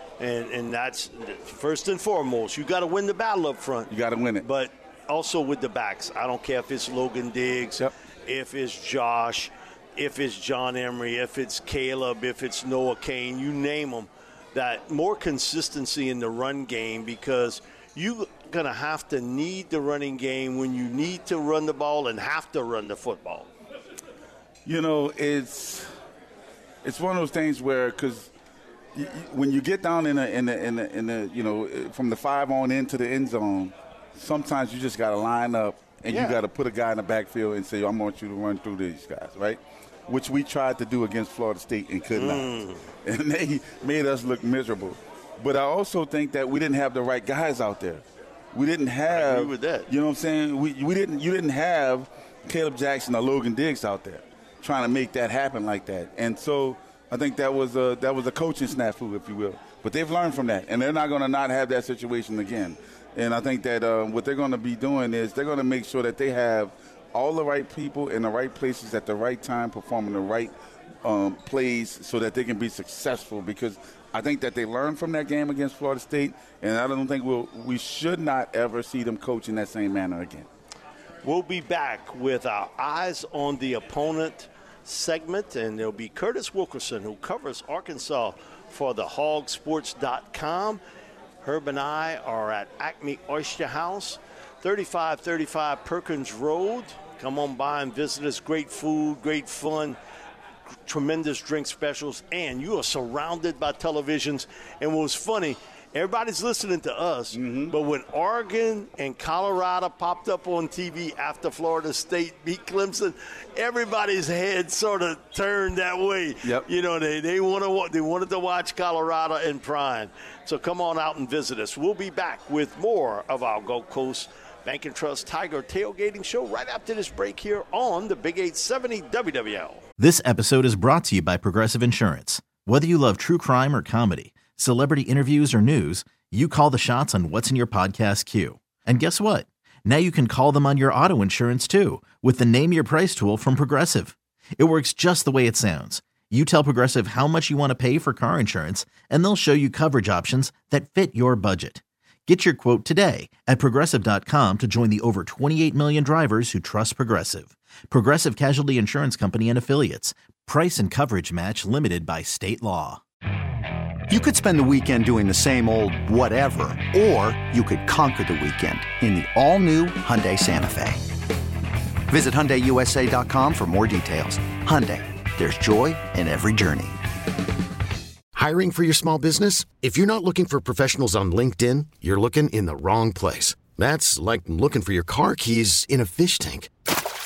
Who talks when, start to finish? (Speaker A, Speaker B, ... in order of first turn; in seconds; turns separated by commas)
Speaker A: 0.2-3.9, Speaker B: 3.9-4.5, Speaker A: 4.4-23.5, Speaker B: 24.6-25.9, Speaker B: 26.8-28.3, Speaker B: 28.9-42.5, Speaker A: 36.1-36.4, Speaker A: 42.1-42.8, Speaker B: 43.0-80.5, Speaker A: 49.1-49.9, Speaker A: 81.2-90.8, Speaker A: 91.4-100.0, Speaker A: 100.9-129.8, Speaker B: 107.3-107.7, Speaker C: 130.0-163.0, Speaker D: 164.1-170.9, Speaker D: 172.1-176.8, Speaker E: 178.3-186.7